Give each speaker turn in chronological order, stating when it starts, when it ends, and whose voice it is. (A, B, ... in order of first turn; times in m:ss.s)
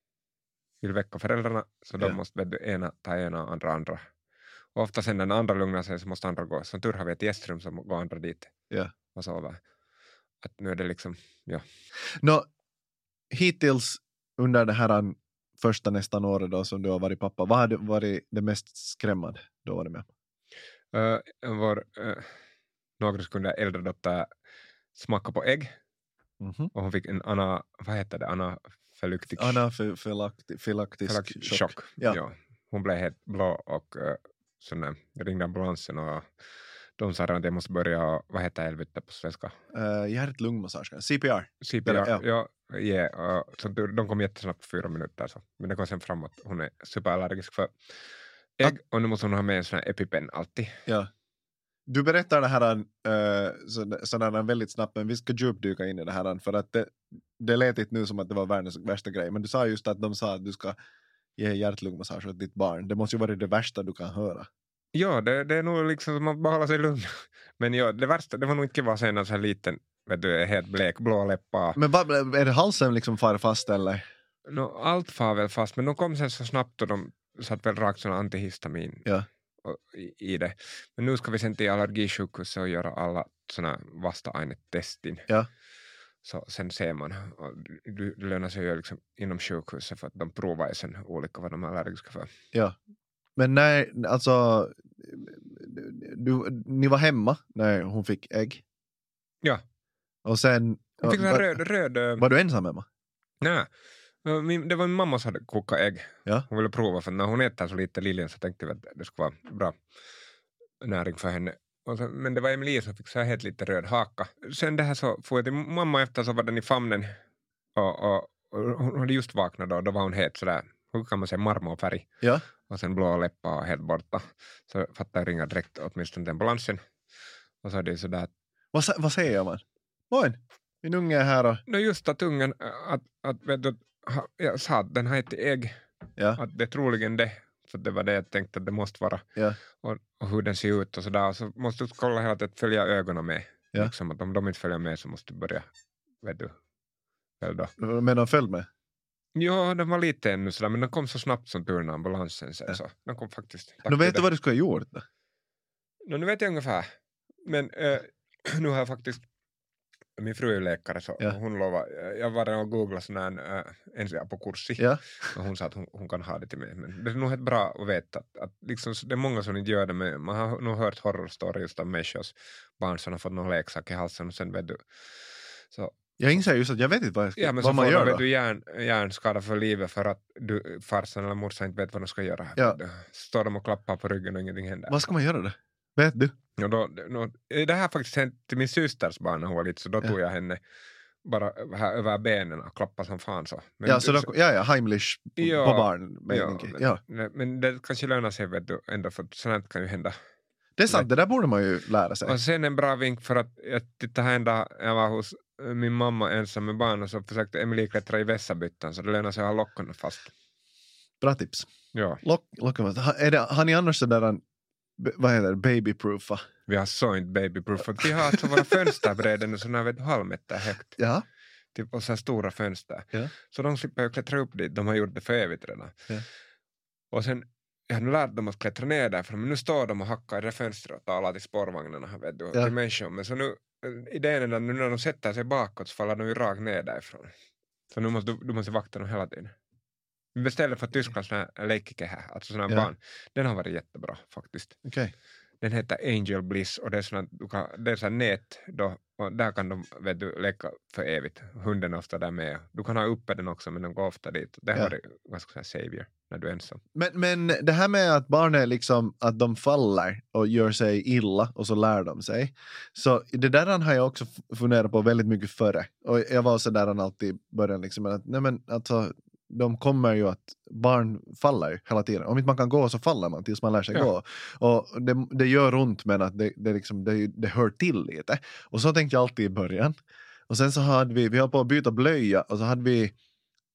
0:00.8-0:04.0 A
0:04.8-0:08.5 A
0:09.2-0:09.6 A
0:10.4-0:11.6 A
0:13.3-0:20.1 B
0:20.9-0:22.3 A
0:23.0-0:24.3 A
0:25.0-0:25.7 A
0:26.4-0:26.7 B
0:26.8-0:29.6 A
0:29.4-0:32.2 B
0:31.1-0:36.3 A
0:37.0-0:39.5 A
0:39.7-0:42.2 B
0:41.6-0:47.7 A
0:48.6-0:50.7 A
0:51.9-1:00.8 B
1:01.4-1:04.5 B
1:04.9-1:11.8 A
1:11.8-1:14.0 B
1:14.5-1:19.0 A
1:19.6-1:25.2 A
1:26.2-1:32.3 A
1:33.4-1:38.6 B
1:40.2-1:41.6 B
1:41.0-1:42.2 A
1:42.2-1:42.9 B
1:43.4-1:43.7 A
1:44.2-1:49.8 A
1:50.8-1:57.1 A
1:57.8-2:02.1 A
2:02.7-2:06.8 A
2:07.6-2:08.3 A
2:08.7-2:11.6 B
2:11.7-2:15.8 A
2:16.4-2:19.2 A
2:19.8-2:25.7 A
2:26.2-2:26.6 A
2:27.4-2:27.7 A
2:27.8-2:28.7 B
2:29.4-2:34.3 A
2:33.8-2:35.1 B
2:36.1-2:36.9 A
2:37.4-2:39.2 A
2:40.2-2:54.8 A
2:56.2-2:58.2 B
2:57.4-3:05.0 A
3:04.9-3:06.3 B
3:06.6-3:10.6 A
3:11.2-3:14.3 A
3:13.8-3:17.0 B
3:15.4-3:20.2 A
3:20.8-3:22.4 B
3:22.3-3:30.3 A
3:31.2-3:31.7 B
3:31.9-3:32.2 A
3:32.2-3:34.4 B
3:35.0-3:36.5 B
3:36.7-3:41.0 A
3:38.0-3:38.4 B
3:41.0-3:41.2 B
3:41.7-3:46.0 A
3:47.1-3:57.3 A
3:57.9-3:59.5 A
4:00.4-4:04.8 A
4:04.8-4:05.1 B
4:05.6-4:16.8 A
4:17.0-4:40.0 B
4:40.5-4:43.1 B